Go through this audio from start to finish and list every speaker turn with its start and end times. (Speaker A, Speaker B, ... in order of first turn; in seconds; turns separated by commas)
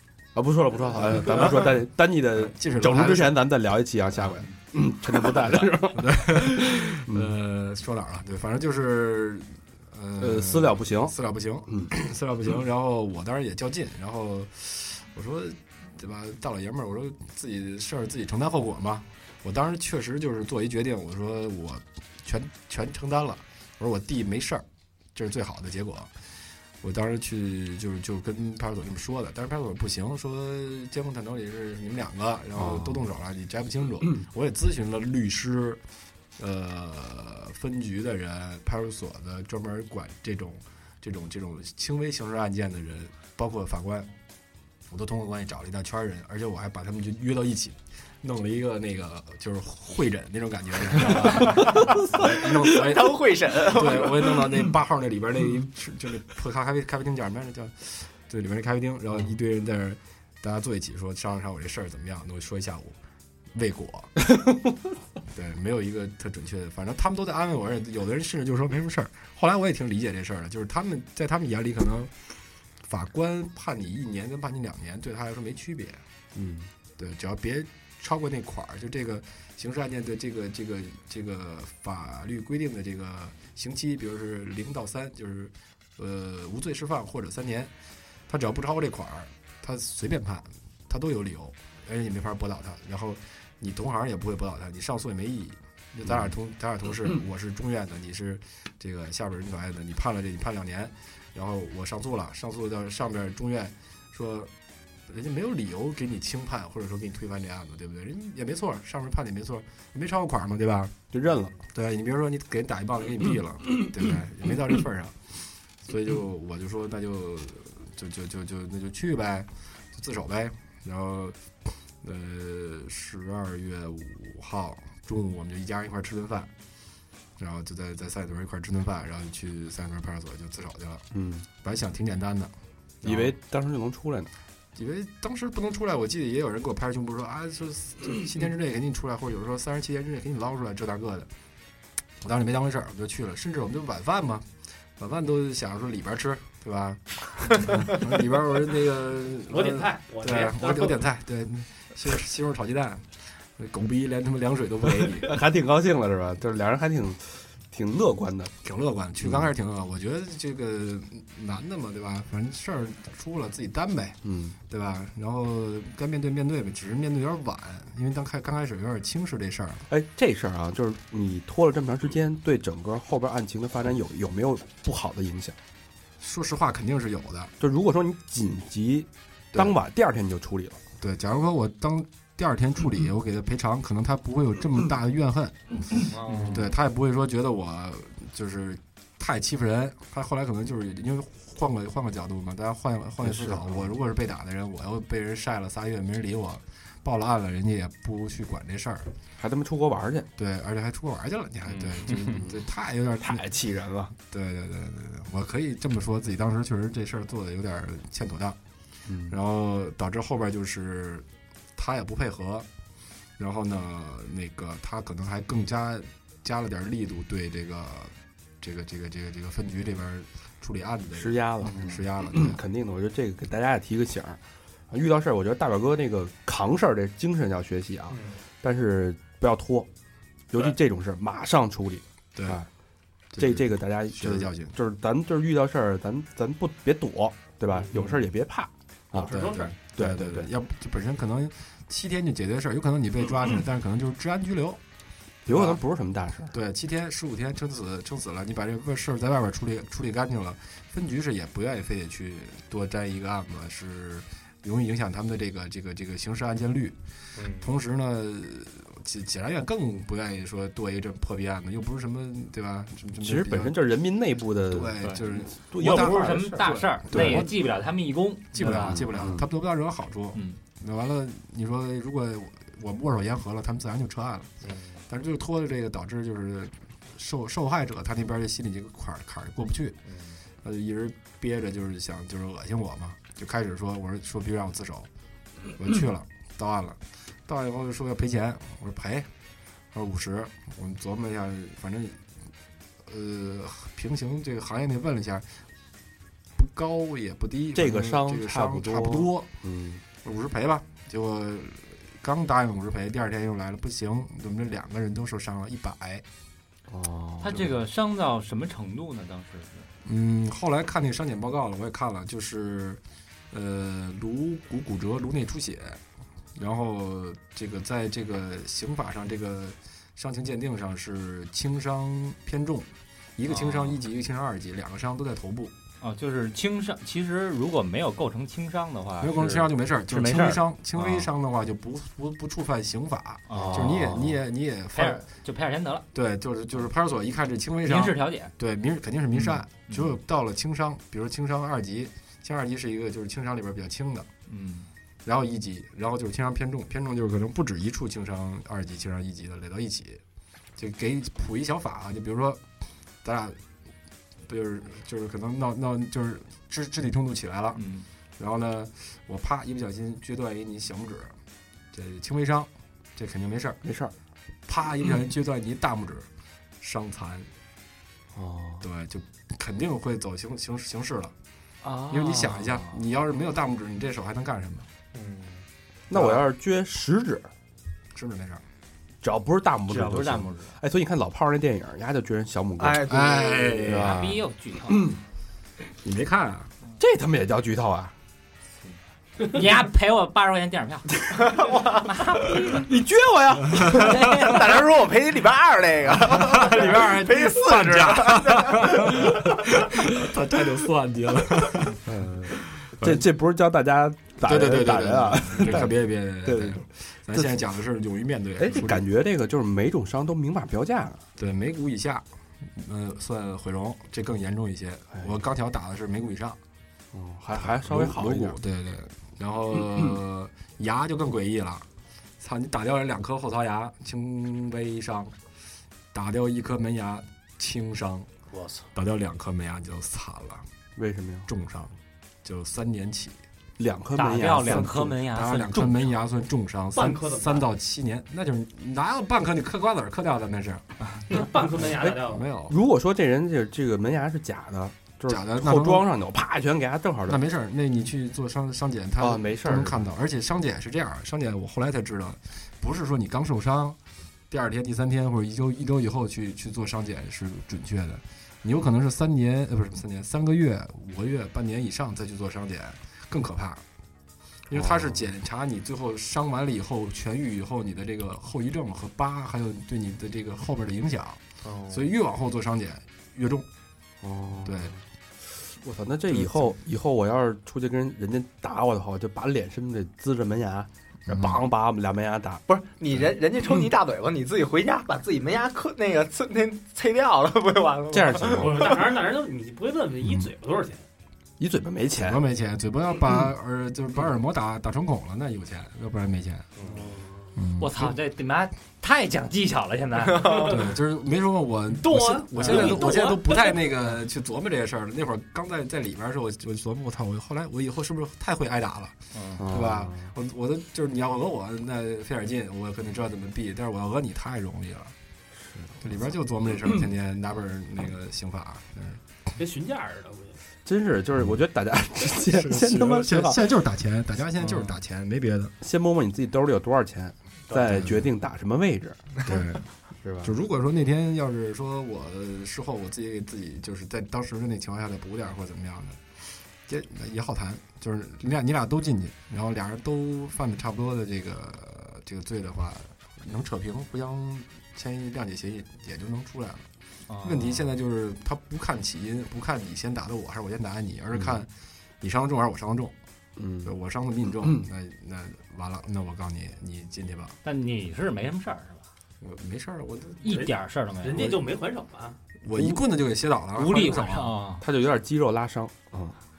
Speaker A: 0.3-7.3, Speaker B: 2.4-3.4, Speaker B: 5.3-26.1, Speaker A: 10.2-11.2, Speaker A: 11.7-11.9, Speaker B: 26.8-35.8, Speaker A: 32.5-33.0, Speaker B: 36.4-44.1, Speaker B: 44.9-63.0, Speaker C: 51.5-54.5, Speaker B: 63.5-64.2, Speaker B: 65.2-72.1, Speaker B: 72.8-76.0, Speaker A: 76.3-76.7, Speaker B: 77.0-87.7, Speaker B: 88.3-104.5, Speaker A: 96.0-96.3, Speaker B: 105.1-111.0, Speaker A: 111.1-111.6, Speaker B: 111.7-126.5, Speaker B: 127.4-131.0, Speaker A: 131.1-131.4, Speaker B: 131.6-133.3, Speaker A: 133.0-134.3, Speaker B: 134.7-141.3, Speaker B: 142.2-144.4, Speaker B: 145.0-155.3, Speaker D: 149.5-151.0, Speaker A: 155.2-158.5, Speaker B: 158.6-169.8, Speaker A: 159.2-159.5, Speaker A: 164.2-164.6, Speaker A: 169.9-175.6, Speaker B: 176.2-177.5, Speaker A: 177.6-180.8, Speaker B: 181.0-186.0, Speaker C: 186.1-186.6, Speaker E: 186.3-186.6, Speaker B: 186.5-199.1, Speaker A: 193.2-193.9, Speaker A: 199.4-200.3, Speaker B: 200.3-203.4, Speaker A: 202.2-202.6, Speaker A: 203.2-204.1, Speaker B: 204.2-208.6, Speaker A: 209.1-209.4, Speaker B: 209.3-212.7, Speaker B: 213.4-222.6, Speaker A: 221.1-229.9, Speaker A: 230.5-232.7, Speaker B: 232.3-232.6, Speaker B: 233.3-234.7, Speaker A: 233.4-240.5, Speaker B: 237.9-238.2, Speaker D: 239.1-239.7, Speaker B: 239.3-244.8, Speaker A: 245.4-246.5, Speaker B: 245.5-245.8, Speaker B: 246.5-257.0, Speaker C: 257.4-257.7, Speaker B: 257.5-263.8, Speaker A: 263.1-267.5, Speaker B: 264.7-267.5, Speaker E: 265.8-269.3, Speaker B: 268.5-274.6, Speaker A: 268.6-269.5, Speaker C: 274.6-275.0, Speaker B: 275.1-280.0, Speaker C: 280.1-280.4, Speaker B: 280.6-285.1, Speaker B: 285.7-289.3, Speaker B: 289.9-292.2, Speaker B: 293.0-295.5, Speaker B: 296.6-299.5, Speaker A: 297.7-300.0, Speaker B: 300.2-306.2, Speaker A: 306.9-307.8, Speaker E: 307.4-309.9, Speaker B: 310.0-313.0, Speaker B: 313.5-316.0, Speaker B: 316.6-325.7, Speaker E: 323.4-324.0, Speaker E: 326.0-331.3, Speaker B: 329.2-335.2, Speaker E: 333.5-334.2, Speaker A: 333.5-334.4, Speaker E: 334.9-336.1, Speaker B: 336.1-344.3, Speaker E: 337.9-338.5, Speaker E: 339.3-340.2, Speaker E: 344.5-344.9, Speaker B: 345.2-350.2, Speaker B: 350.8-352.6, Speaker B: 353.2-353.6, Speaker B: 354.5-357.9, Speaker E: 357.8-358.0, Speaker B: 358.4-361.3, Speaker B: 361.9-363.8, Speaker A: 363.8-364.1, Speaker B: 364.7-366.3, Speaker B: 366.8-367.5, Speaker A: 368.3-368.9, Speaker B: 368.8-371.3, Speaker E: 371.8-373.0, Speaker B: 372.1-374.9, Speaker C: 375.1-375.6, Speaker A: 376.1-377.5, Speaker B: 376.1-376.4, Speaker B: 378.1-378.6, Speaker A: 379.2-383.2, Speaker E: 379.9-380.7, Speaker C: 382.8-384.1, Speaker B: 383.0-384.2, Speaker A: 383.8-385.2, Speaker E: 384.1-385.2, Speaker B: 386.0-386.7, Speaker A: 387.0-388.1, Speaker E: 388.9-391.3, Speaker C: 391.3-392.1, Speaker E: 392.0-392.9, Speaker A: 392.6-394.2, Speaker E: 393.8-394.6, Speaker C: 393.9-399.1, Speaker B: 396.3-402.0, Speaker A: 402.0-407.7, Speaker B: 402.8-403.2, Speaker B: 404.4-409.0, Speaker A: 408.6-411.2, Speaker B: 411.4-416.6, Speaker A: 415.1-415.4, Speaker A: 417.1-418.6, Speaker B: 417.5-421.9, Speaker B: 422.4-425.3, Speaker B: 426.1-428.3, Speaker C: 428.5-428.8, Speaker B: 428.9-430.6, Speaker A: 430.9-431.5, Speaker B: 431.4-433.4, Speaker A: 433.8-435.2, Speaker E: 434.1-436.1, Speaker B: 434.6-441.5, Speaker D: 436.9-437.7, Speaker D: 441.3-442.4, Speaker A: 441.9-447.4, Speaker B: 442.2-442.7, Speaker B: 445.3-446.1, Speaker B: 447.2-454.0, Speaker A: 449.2-450.0, Speaker B: 454.5-463.8, Speaker B: 464.7-473.7, Speaker A: 464.7-465.2, Speaker C: 471.6-472.0, Speaker A: 474.2-474.9, Speaker B: 474.6-474.9, Speaker A: 475.6-482.6, Speaker B: 476.3-476.7, Speaker B: 481.3-481.6, Speaker C: 482.7-489.0, Speaker A: 488.1-488.9, Speaker D: 488.6-491.0, Speaker A: 491.6-492.4, Speaker B: 492.2-496.7, Speaker C: 496.8-497.1, Speaker D: 496.8-497.5, Speaker B: 497.6-498.1, Speaker E: 497.8-500.8, Speaker D: 500.4-500.7, Speaker B: 500.6-515.1, Speaker D: 501.9-503.8, Speaker E: 509.3-509.7, Speaker A: 509.6-510.3, Speaker B: 516.0-519.2, Speaker D: 519.6-520.6, Speaker A: 520.8-523.7, Speaker B: 522.4-525.7, Speaker E: 524.6-524.9, Speaker A: 525.8-529.3, Speaker B: 527.8-528.3, Speaker B: 529.4-529.8, Speaker A: 530.2-530.5, Speaker B: 530.4-536.3, Speaker B: 536.8-546.9, Speaker E: 547.3-547.9, Speaker B: 547.4-551.7, Speaker A: 551.3-551.6, Speaker B: 552.2-553.1, Speaker A: 553.6-554.0, Speaker B: 553.8-557.5, Speaker A: 554.6-554.9, Speaker E: 557.6-559.0, Speaker B: 559.4-560.5, Speaker E: 560.4-561.5, Speaker D: 560.4-562.4, Speaker B: 562.6-564.6, Speaker A: 562.7-563.0, Speaker E: 563.8-564.8, Speaker A: 564.8-566.4